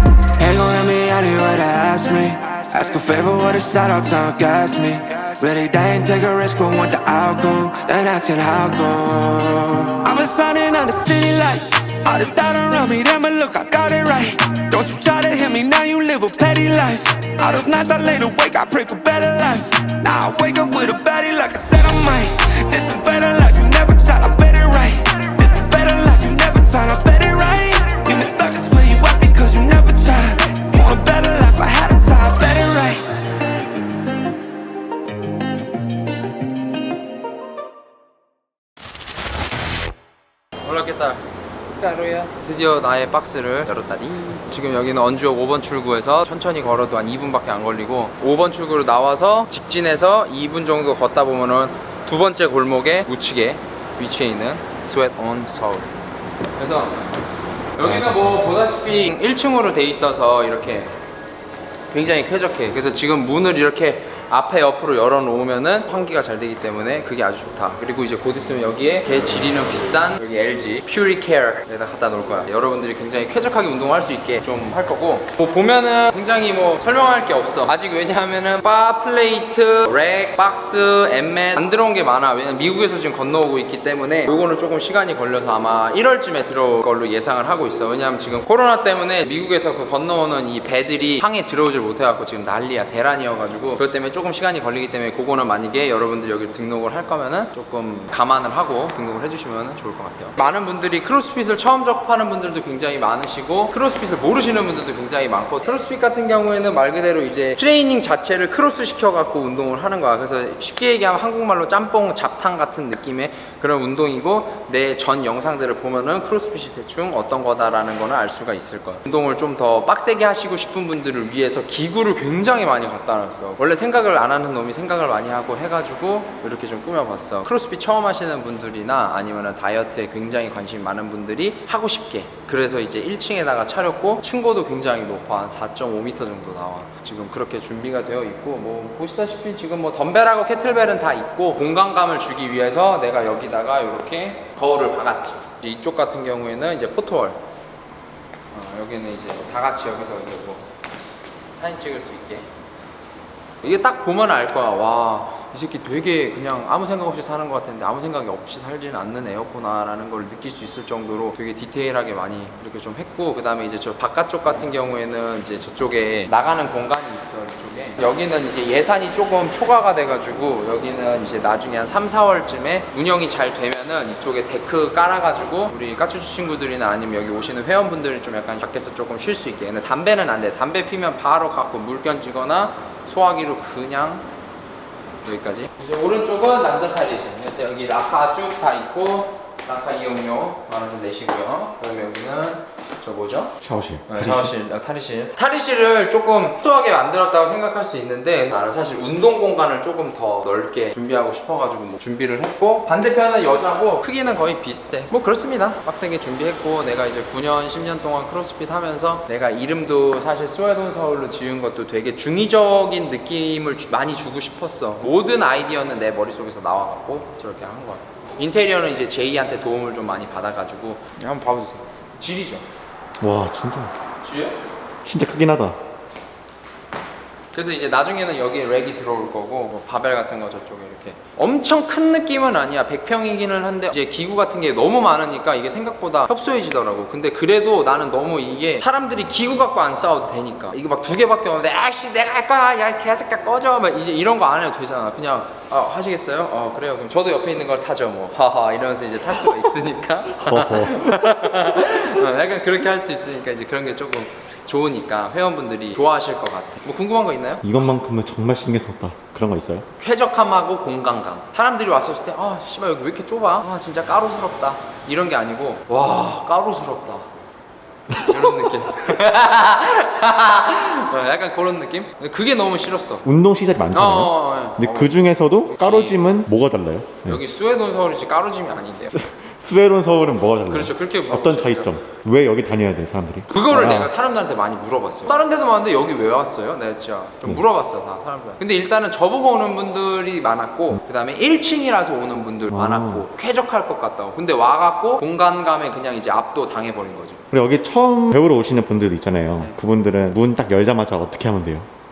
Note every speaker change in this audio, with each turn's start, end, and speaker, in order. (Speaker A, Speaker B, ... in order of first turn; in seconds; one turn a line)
Speaker A: 0.3-33.1
Speaker B: 40.6-41.2
Speaker B: 41.8-55.9
Speaker B: 56.6-57.1
Speaker B: 57.8-60.9
Speaker B: 61.9-147.4
Speaker B: 148.5-150.7
Speaker B: 151.6-152.5
Speaker B: 153.6-184.3
Speaker B: 185.2-193.6
Speaker C: 193.6-194.5
Speaker B: 194.1-222.7
Speaker C: 223.2-223.9
Speaker B: 224.2-224.6
Speaker C: 225.0-225.8
Speaker B: 227.5-257.7
Speaker C: 250.4-251.1
Speaker C: 257.6-259.9
Speaker B: 260.0-267.3
Speaker B: 268.1-273.2
Speaker C: 273.2-277.4
Speaker B: 273.9-276.4
Speaker B: 277.2-279.1
Speaker C: 279.1-284.1
Speaker B: 280.6-281.9
Speaker B: 283.5-297.4
Speaker C: 292.7-293.3
Speaker C: 297.5-301.9